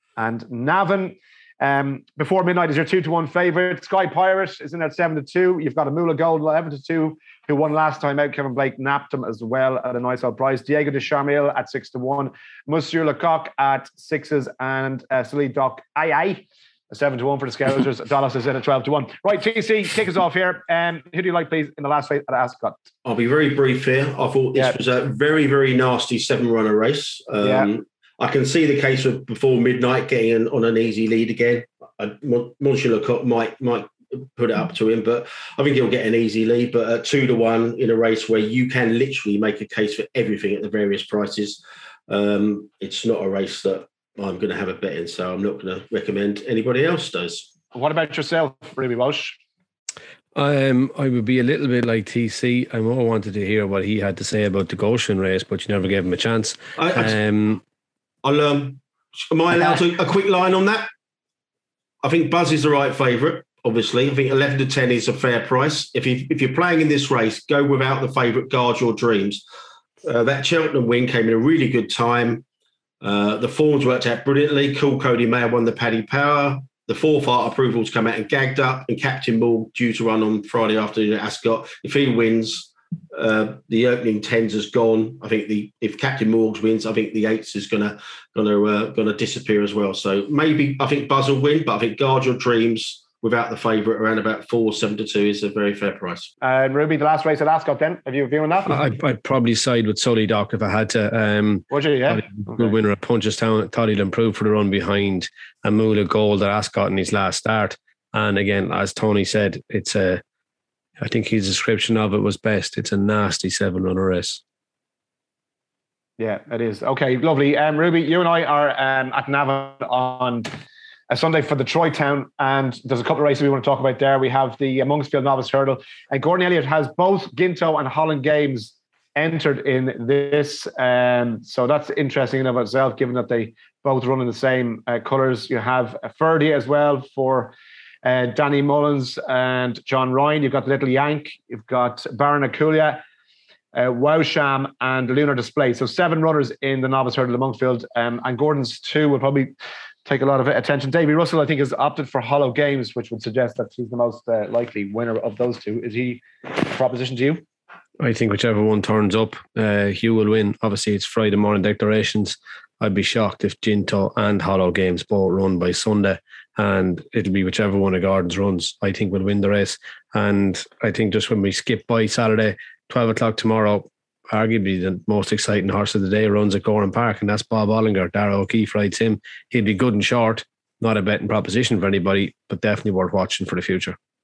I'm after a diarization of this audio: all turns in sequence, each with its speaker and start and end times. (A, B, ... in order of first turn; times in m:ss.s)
0:00.2-0:22.8 A
0:23.0-0:47.5 B
0:27.4-0:27.7 A
0:47.7-0:49.4 A
0:50.4-0:57.6 C
0:56.8-0:57.2 B
0:58.2-1:00.9 B
1:02.0-1:09.4 B
1:10.0-1:12.4 B
1:13.0-1:36.3 B
1:36.4-1:38.8 A
1:38.7-1:50.2 C
1:41.7-1:42.7 A
1:51.0-1:54.4 C
1:56.2-2:00.5 A
2:01.1-2:23.0 A
2:23.7-2:29.5 A
2:30.0-2:37.4 A
2:38.0-3:04.0 C